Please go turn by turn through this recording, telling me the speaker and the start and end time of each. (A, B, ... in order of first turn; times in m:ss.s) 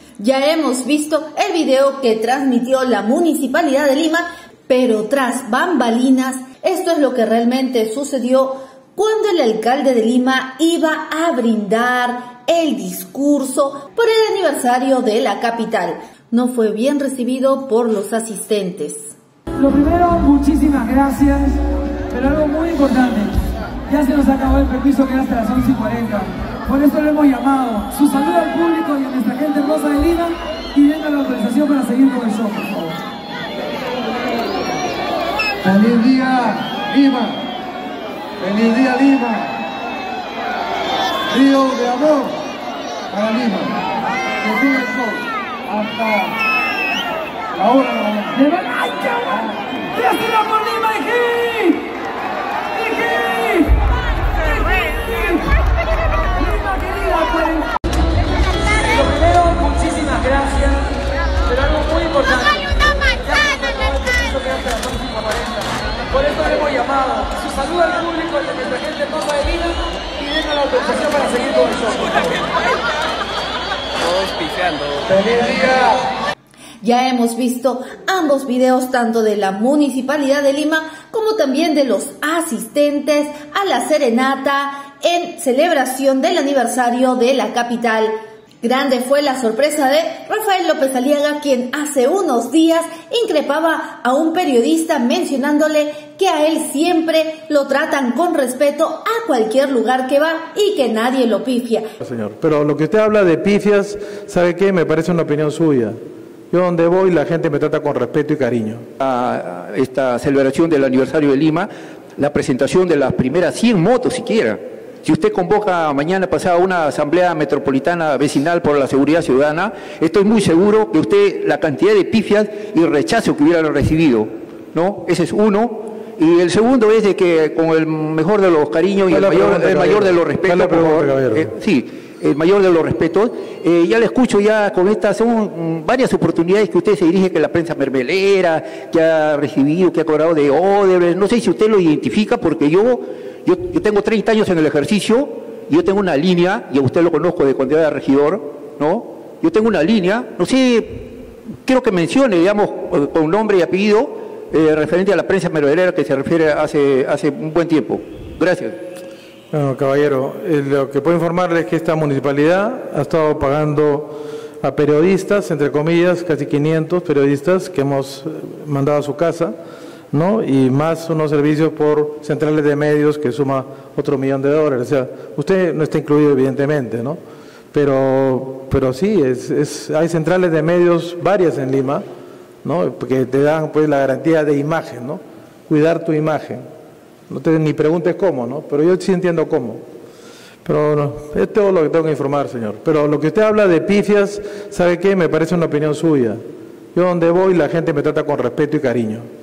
0:00.2-0:19.1 A
0:19.6-0:21.6 B
0:22.1-0:23.4 B
0:23.9-0:33.0 B
0:35.6-0:37.4 C
0:38.4-0:39.6 C
0:41.3-0:42.4 C
0:43.1-0:43.8 C
0:44.4-0:46.4 C
0:47.5-0:48.4 C
0:48.3-0:51.9 B
0:52.7-0:53.8 B
0:54.5-0:55.5 B
0:56.4-0:57.7 B
0:58.8-1:01.0 B
1:01.5-1:12.5 B
1:15.1-1:16.0 C
1:16.8-1:41.9 A
1:42.0-1:46.0 D
1:46.5-1:48.8 D
1:49.0-2:38.8 E
2:09.1-2:11.5 D
2:39.5-2:49.6 D
2:50.1-2:57.2 D
2:57.7-3:02.0 D
3:02.6-3:06.6 D
3:07.3-3:09.8 D
3:10.6-3:16.4 D
3:16.9-3:19.3 D